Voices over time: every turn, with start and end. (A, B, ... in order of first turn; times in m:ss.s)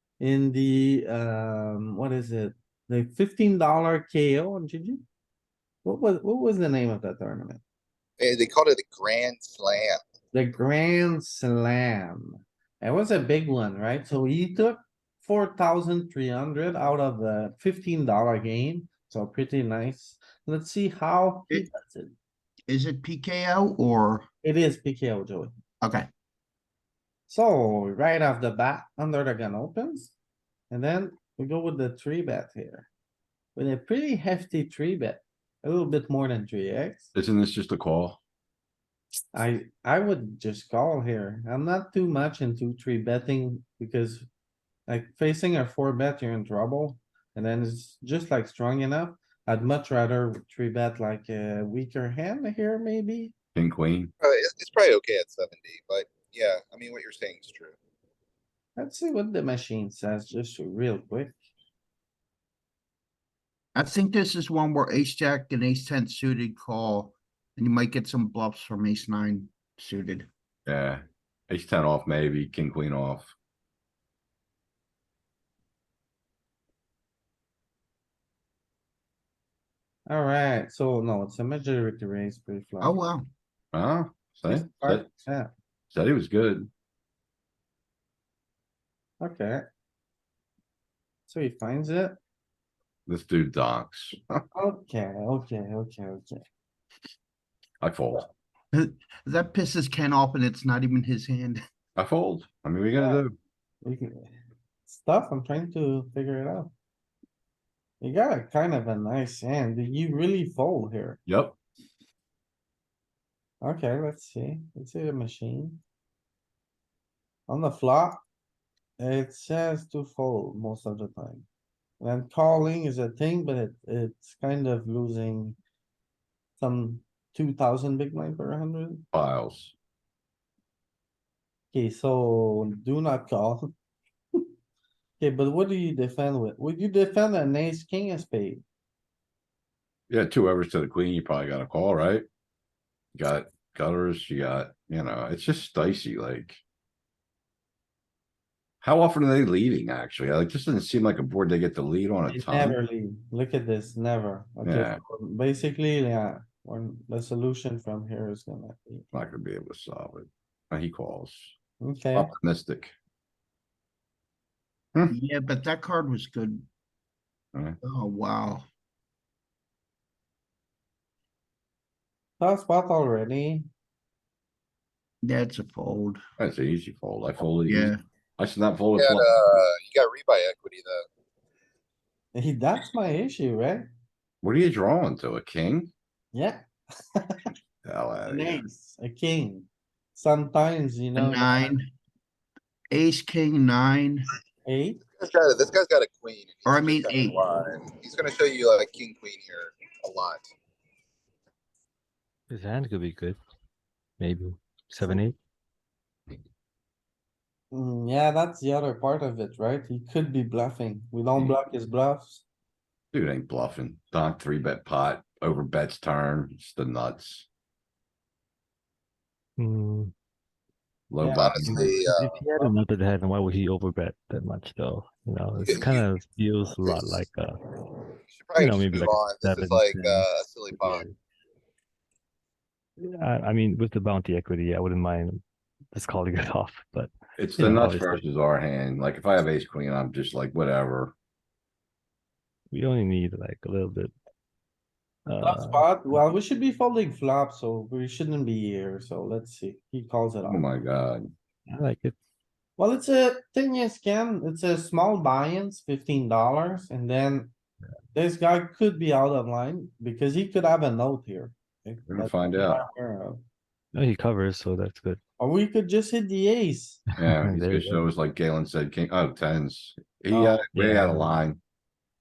0:00.2-0:05.0 A
0:05.8-0:07.6 A
0:08.2-0:10.0 B
0:10.3-0:22.2 A
0:22.7-0:24.3 C
0:24.4-0:25.5 A
0:25.8-0:26.1 C
0:27.3-0:30.1 A
0:30.7-0:32.9 A
0:33.6-0:37.1 A
0:37.2-0:38.2 D
0:39.3-0:44.3 A
0:44.9-0:53.3 A
0:53.6-0:54.1 D
0:54.2-0:57.8 B
0:58.8-1:01.4 A
1:03.8-1:10.3 C
1:10.7-1:13.3 D
1:20.1-1:22.9 A
1:22.8-1:23.3 C
1:23.7-1:25.1 D
1:24.4-1:25.5 A
1:25.9-1:26.7 D
1:29.2-1:29.6 A
1:31.3-1:32.2 A
1:33.1-1:34.4 D
1:34.5-1:36.4 A
1:37.8-1:38.3 D
1:38.7-1:41.6 C
1:42.0-1:43.4 D
1:43.0-1:43.2 A
1:43.8-1:44.3 A
1:44.9-1:46.7 A
1:48.0-1:51.2 A
1:51.3-1:51.6 D
1:53.6-1:55.8 A
1:57.5-1:58.2 A
1:59.0-2:01.5 A
2:02.0-2:05.6 A
2:06.6-2:09.0 A
2:09.1-2:09.7 D
2:11.7-2:13.7 A
2:15.2-2:18.6 A
2:20.1-2:22.3 D
2:23.2-2:26.6 D
2:28.8-2:32.8 D
2:32.3-2:39.0 A
2:34.6-2:35.0 D
2:39.1-2:41.5 D
2:41.8-2:42.3 A
2:42.1-2:42.9 D
2:45.1-2:46.7 C
2:47.8-2:48.7 C
2:52.4-2:53.7 A
2:55.2-2:56.2 C
2:56.4-2:59.4 D
2:57.7-2:58.0 C
2:59.0-3:01.0 B
3:02.4-3:03.9 A
3:04.4-3:05.9 D
3:06.3-3:06.6 A
3:07.2-3:07.5 A
3:07.8-3:08.6 D
3:08.2-3:11.8 A
3:11.2-3:11.9 C
3:12.9-3:14.3 C
3:14.6-3:15.0 A
3:15.1-3:20.5 B
3:16.7-3:17.5 C
3:22.5-3:23.4 E
3:24.2-3:25.4 E
3:27.7-3:32.4 A
3:33.1-3:37.5 D
3:39.6-3:40.1 E
3:41.1-3:41.9 D
3:41.2-3:42.7 B
3:41.6-3:47.6 E
3:45.6-3:46.0 B
3:48.3-3:51.1 B
3:48.6-3:51.2 E
3:53.0-3:58.2 E
3:57.4-4:01.1 D
4:02.7-4:04.1 E
4:05.3-4:05.9 E
4:05.4-4:10.6 A
4:10.5-4:11.3 D
4:11.7-4:12.2 E
4:12.8-4:17.5 A
4:18.1-4:23.4 A
4:22.1-4:22.8 D
4:23.9-4:25.2 E
4:25.4-4:27.0 A
4:27.2-4:28.0 E
4:27.2-4:31.6 D
4:30.3-4:30.6 A
4:30.7-4:31.4 E